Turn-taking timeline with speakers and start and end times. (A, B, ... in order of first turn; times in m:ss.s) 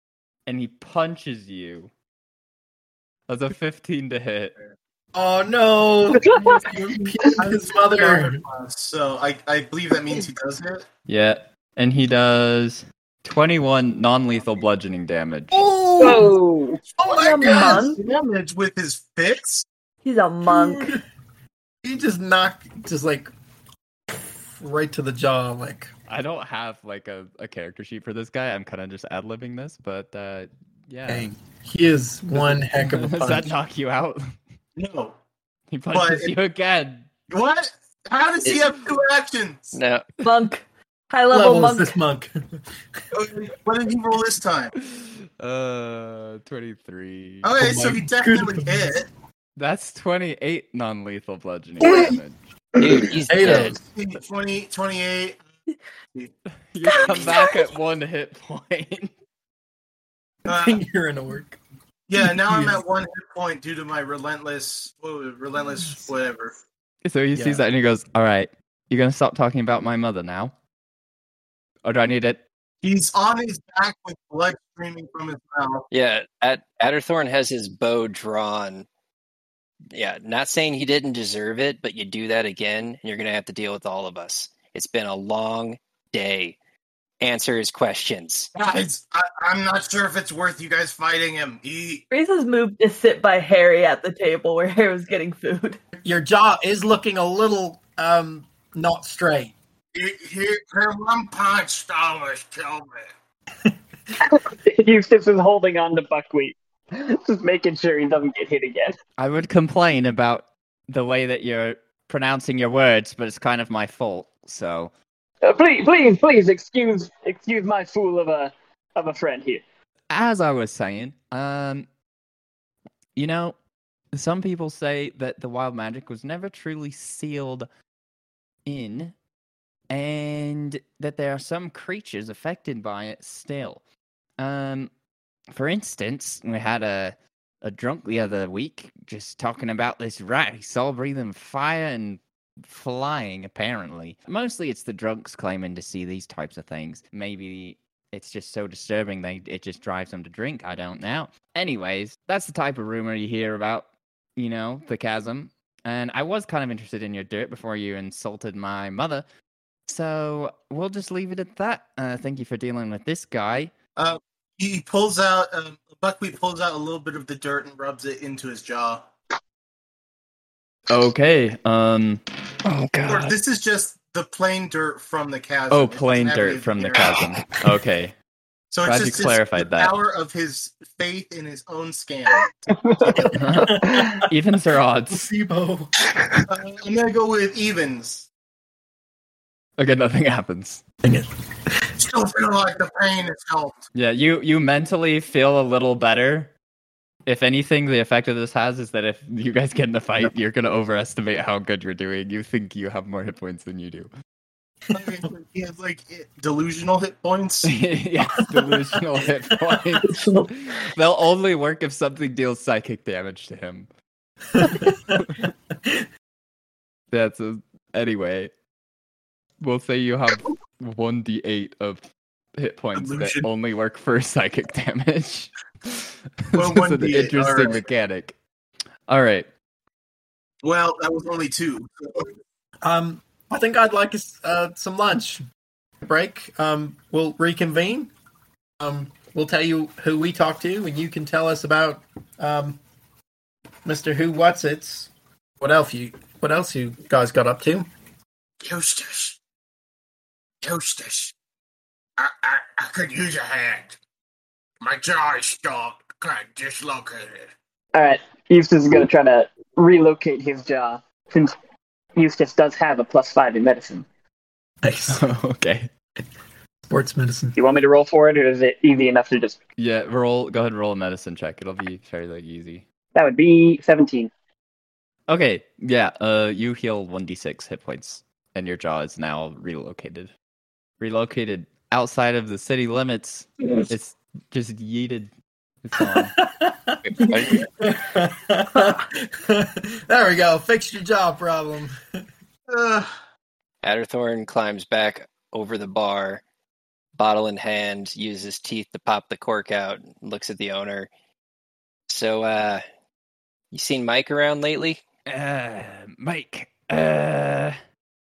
0:00.5-0:01.9 A
0:03.3-0:04.6 A
0:05.1-0:08.4 B
0:06.2-0:07.3 C
0:07.4-0:10.8 D
0:11.1-0:15.6 A
0:15.5-0:16.4 B
0:16.0-0:16.8 C
0:17.0-0:19.6 D
0:17.0-0:17.8 B
0:17.1-0:18.0 E
0:20.0-0:21.0 E
0:20.4-0:21.0 B
0:21.8-0:23.3 B
0:24.4-0:25.9 B
0:26.1-0:31.3 A
0:31.1-0:33.5 B
0:32.3-0:34.2 A
0:34.8-0:35.2 D
0:35.7-0:37.1 A
0:35.9-0:36.3 D
0:37.3-0:39.8 D
0:39.7-0:40.1 F
0:40.2-0:42.0 E
0:41.3-0:42.4 B
0:43.1-0:44.7 D
0:45.0-0:47.5 A
0:47.4-0:49.1 D
0:47.6-0:49.0 B
0:49.6-0:52.4 A
0:51.8-0:52.2 B
0:52.8-0:53.8 F
0:52.8-0:53.8 B
0:53.9-0:55.4 D
0:56.7-0:59.1 A
0:56.8-0:57.7 E
1:00.4-1:01.6 B
1:00.5-1:00.8 D
1:02.1-1:06.6 D
1:02.2-1:02.8 B
1:07.0-1:10.5 A
1:07.3-1:07.6 B
1:11.8-1:12.4 A
1:12.8-1:15.9 D
1:15.9-1:18.9 F
1:19.9-1:26.6 F
1:27.2-1:28.5 F
1:28.6-1:32.0 D
1:32.1-1:35.8 E
1:36.0-1:39.6 B
1:40.0-1:43.1 D
1:44.2-1:49.0 C
1:49.2-1:54.9 A
1:55.4-1:59.6 C
2:00.1-2:01.9 A
2:03.2-2:03.6 A
2:04.1-2:07.7 A
2:08.7-2:09.1 A
2:09.9-2:13.8 A
2:14.4-2:14.9 A
2:15.5-2:39.2 A
2:39.9-2:43.7 A
2:44.0-2:49.0 D
2:50.9-2:52.2 A
2:52.6-2:53.4 F
2:53.1-2:57.2 D
2:55.7-2:58.1 A
2:58.7-3:03.5 D
2:58.8-2:59.9 A
3:02.8-3:03.0 C
3:03.4-3:05.3 A
3:03.5-3:04.1 B
3:03.9-3:04.2 C
3:05.1-3:05.9 B
3:06.5-3:08.3 D
3:09.8-3:10.8 A
3:12.0-3:13.8 D
3:13.9-3:16.5 A
3:17.3-3:24.1 A
3:24.9-3:27.7 D
3:27.6-3:33.9 A
3:30.1-3:30.5 E
3:34.5-3:36.1 B
3:35.1-3:35.4 A
3:37.1-3:38.5 A
3:39.6-3:42.0 A
3:42.6-3:46.0 A
3:43.0-3:43.5 D
3:46.5-3:48.4 A
3:46.5-3:47.9 D
3:49.1-3:49.5 A
3:50.6-3:52.3 D
3:52.8-3:55.4 B
3:56.0-3:58.1 B
3:58.8-4:02.8 B
4:03.8-4:07.9 B
4:08.6-4:09.4 D
4:10.6-4:11.3 D
4:12.2-4:14.0 D
4:14.8-4:17.5 D
4:17.9-4:21.6 C
4:22.2-4:24.1 C
4:24.8-4:25.2 B
4:25.1-4:25.9 A
4:26.9-4:27.6 B
4:27.6-4:29.6 C
4:29.8-4:32.8 A
4:33.1-4:34.3 C
4:35.3-4:40.3 A
4:41.0-4:45.3 A
4:45.8-4:46.4 A
4:46.0-4:52.0 B
4:47.0-4:47.7 F
4:52.7-4:53.1 D
4:53.8-4:56.4 F
4:57.2-5:01.1 F
5:02.1-5:02.8 F
5:03.7-5:05.0 F
5:05.3-5:07.7 A